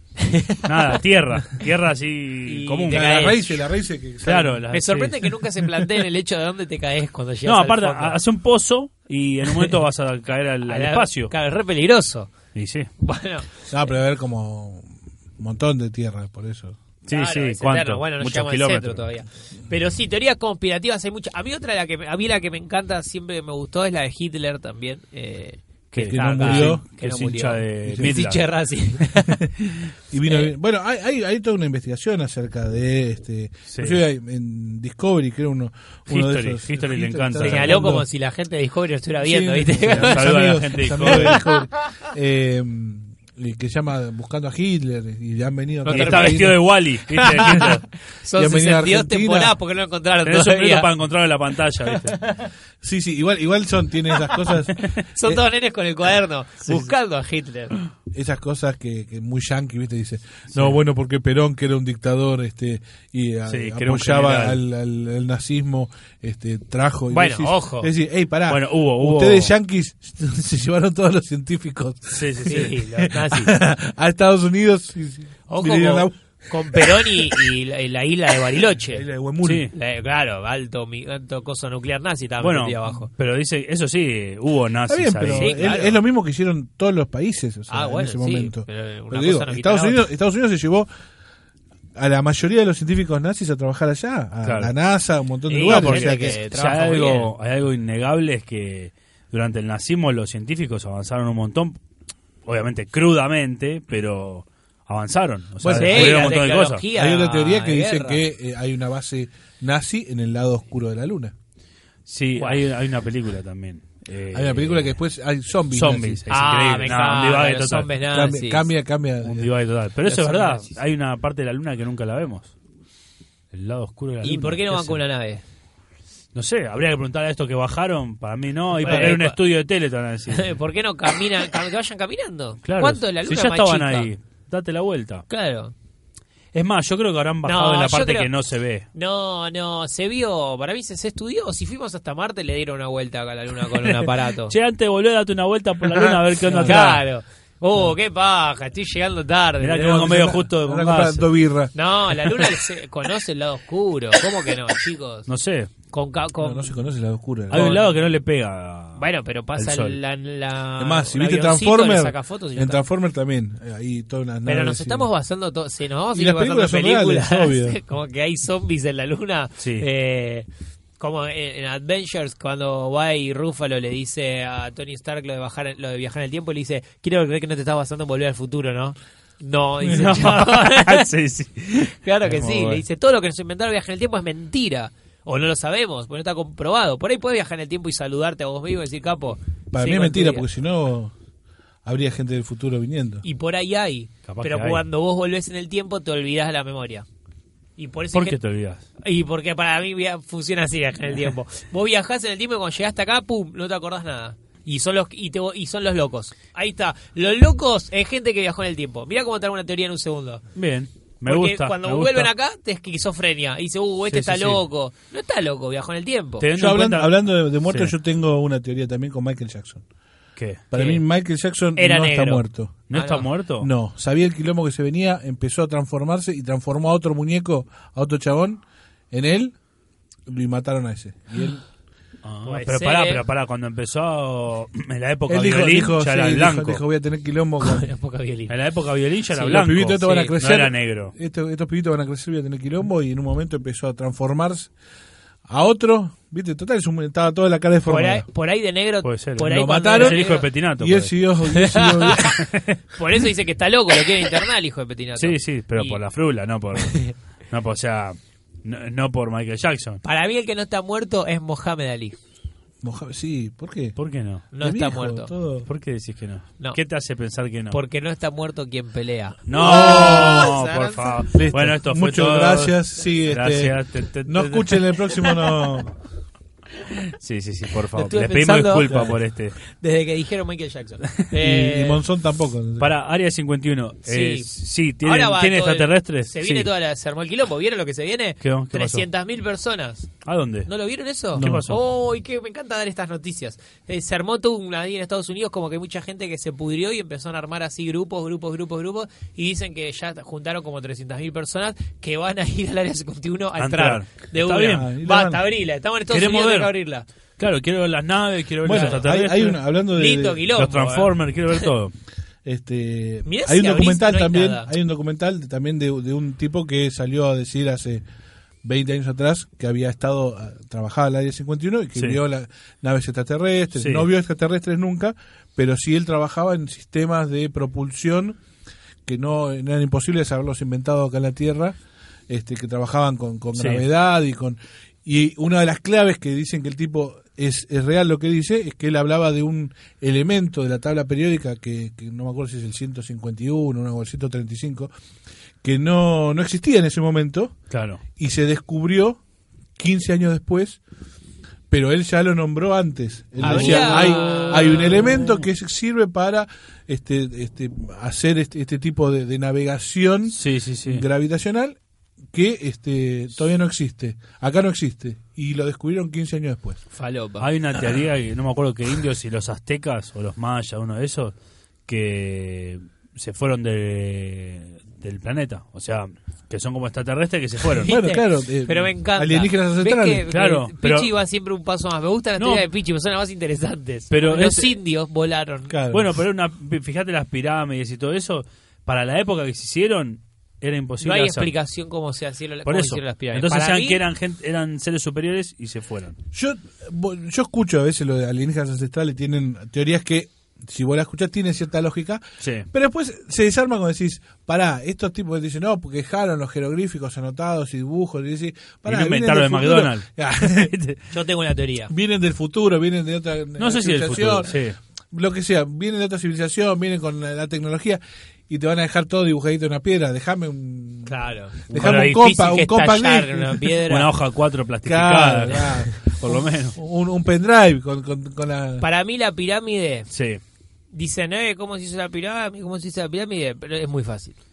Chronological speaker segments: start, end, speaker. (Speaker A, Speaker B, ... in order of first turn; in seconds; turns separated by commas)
Speaker A: 0.2-1.0, Speaker B: 0.5-3.4, Speaker A: 2.4-3.6, Speaker C: 2.9-4.6, Speaker B: 4.2-5.3, Speaker A: 4.7-8.2, Speaker B: 7.4-11.3, Speaker A: 10.7-12.3, Speaker B: 12.5-12.9, Speaker A: 13.0-13.6, Speaker C: 13.7-14.8, Speaker C: 15.4-16.8, Speaker B: 17.1-19.1, Speaker A: 17.1-29.4, Speaker B: 25.9-28.4, Speaker C: 26.0-26.8, Speaker C: 27.8-28.2, Speaker C: 30.1-38.0, Speaker B: 33.7-34.0, Speaker B: 36.1-37.9, Speaker A: 37.4-41.4, Speaker C: 39.2-46.6, Speaker B: 39.9-41.4, Speaker A: 45.9-50.9, Speaker B: 45.9-47.8, Speaker C: 48.3-49.5, Speaker B: 50.2-52.2, Speaker A: 51.8-52.5, Speaker C: 52.8-55.4, Speaker A: 54.3-57.8, Speaker C: 58.1-77.5, Speaker B: 60.5-60.8, Speaker B: 63.5-64.6, Speaker A: 67.1-67.9, Speaker B: 68.5-69.5, Speaker B: 72.1-72.8, Speaker A: 72.4-73.5, Speaker A: 75.5-79.0, Speaker C: 78.9-79.7, Speaker B: 79.4-79.7, Speaker A: 79.7-83.1, Speaker B: 82.4-85.7, Speaker C: 84.9-90.9, Speaker A: 85.3-86.0, Speaker A: 87.7-90.0, Speaker C: 91.9-96.3, Speaker B: 94.4-94.7, Speaker A: 95.5-97.3, Speaker B: 95.6-101.8, Speaker B: 102.5-106.8, Speaker C: 105.6-106.4, Speaker A: 105.7-108.2, Speaker C: 106.9-111.3, Speaker B: 112.0-114.9, Speaker A: 112.4-112.6, Speaker C: 114.3-116.2, Speaker B: 115.7-117.9, Speaker A: 116.3-118.7, Speaker C: 118.1-119.5, Speaker B: 119.2-122.5, Speaker A: 120.0-120.8, Speaker B: 123.5-125.0, Speaker A: 124.2-125.4, Speaker B: 126.3-130.6, Speaker A: 128.8-129.4, Speaker A: 130.3-134.1, Speaker B: 132.6-135.2, Speaker A: 135.3-135.7, Speaker B: 136.5-138.9, Speaker A: 137.4-138.3, Speaker A: 138.9-144.5, Speaker B: 143.7-147.0, Speaker C: 146.4-146.8, Speaker A: 146.6-150.1, Speaker B: 149.6-151.3, Speaker C: 149.8-152.3, Speaker A: 151.7-155.3, Speaker B: 155.3-155.7, Speaker A: 155.9-156.7, Speaker C: 156.4-157.8, Speaker B: 157.5-160.0, Speaker A: 157.5-157.8, Speaker A: 159.0-162.8, Speaker C: 160.8-165.1, Speaker A: 164.4-170.5, Speaker C: 166.1-167.8, Speaker B: 169.6-169.8, Speaker A: 171.0-181.1, Speaker B: 179.9-182.8, Speaker A: 181.8-190.4, Speaker C: 189.7-191.1, Speaker C: 191.8-193.2, Speaker A: 193.2-197.1, Speaker B: 194.3-194.8, Speaker A: 197.8-198.4, Speaker B: 198.1-198.8, Speaker A: 199.0-210.4, Speaker B: 210.5-212.3, Speaker A: 211.2-216.5, Speaker B: 214.1-214.6, Speaker B: 216.4-217.1, Speaker C: 216.5-219.8, Speaker B: 217.7-217.9, Speaker B: 220.4-220.9, Speaker C: 220.7-222.9, Speaker A: 221.8-223.3, Speaker B: 222.9-223.7, Speaker C: 223.6-229.5, Speaker C: 230.3-231.6, Speaker B: 232.2-236.8, Speaker A: 232.4-233.2, Speaker C: 235.3-237.8, Speaker A: 237.6-238.5, Speaker B: 238.5-241.1, Speaker A: 239.3-240.3, Speaker C: 239.4-244.7, Speaker C: 245.5-248.2, Speaker A: 247.9-250.4, Speaker B: 249.0-251.1, Speaker C: 249.4-252.5, Speaker A: 251.5-256.0, Speaker B: 252.2-252.8, Speaker B: 255.2-260.0, Speaker A: 256.8-257.1, Speaker A: 260.0-262.2, Speaker C: 262.8-263.9, Speaker B: 263.9-264.4, Speaker A: 264.5-265.3, Speaker C: 264.6-265.7, Speaker B: 265.6-267.8, Speaker A: 267.7-271.2, Speaker B: 269.5-274.9, Speaker C: 269.6-270.5, Speaker C: 271.3-275.9, Speaker B: 277.1-279.5, Speaker A: 277.9-282.0, Speaker C: 281.3-282.9, Speaker B: 282.8-286.7, Speaker A: 284.1-284.5, Speaker A: 285.0-290.1, Speaker B: 288.4-289.1, Speaker B: 290.2-290.7, Speaker A: 290.6-307.0, Speaker B: 291.3-291.8, Speaker C: 291.4-291.6, Speaker B: 303.6-304.9, Speaker C: 304.7-305.4, Speaker B: 306.1-306.7, Speaker B: 307.4-309.6, Speaker C: 308.6-310.4, Speaker A: 308.7-309.0, Speaker A: 309.9-311.6, Speaker B: 310.5-311.9, Speaker C: 312.4-318.0, Speaker A: 313.2-314.7, Speaker C: 318.6-328.4, Speaker B: 323.8-324.1, Speaker C: 329.1-331.8, Speaker C: 332.3-344.9, Speaker B: 333.6-333.8, Speaker C: 345.6-347.6, Speaker B: 347.7-348.0, Speaker C: 348.2-349.2, Speaker C: 349.8-350.8, Speaker C: 351.7-361.8, Speaker B: 353.4-355.4, Speaker A: 353.4-355.1, Speaker B: 360.3-361.0, Speaker C: 362.3-366.8, Speaker A: 366.9-367.5, Speaker B: 367.4-371.3, Speaker B: 371.9-377.9, Speaker A: 377.7-385.7, Speaker C: 377.9-380.2, Speaker B: 380.3-381.1, Speaker B: 382.4-382.6, Speaker B: 384.1-384.7, Speaker C: 385.7-386.1, Speaker B: 385.9-391.5, Speaker A: 391.0-394.0, Speaker B: 392.6-396.2, Speaker C: 396.3-410.7, Speaker B: 402.4-402.7, Speaker B: 408.9-411.0, Speaker A: 411.1-411.9, Speaker C: 411.9-414.6, Speaker B: 413.6-414.8, Speaker C: 415.1-421.1, Speaker A: 421.1-424.1, Speaker C: 421.7-423.8, Speaker B: 421.7-422.3, Speaker B: 423.9-426.8, Speaker C: 424.8-428.8, Speaker A: 428.8-430.1, Speaker B: 430.1-430.4, Speaker A: 430.9-434.3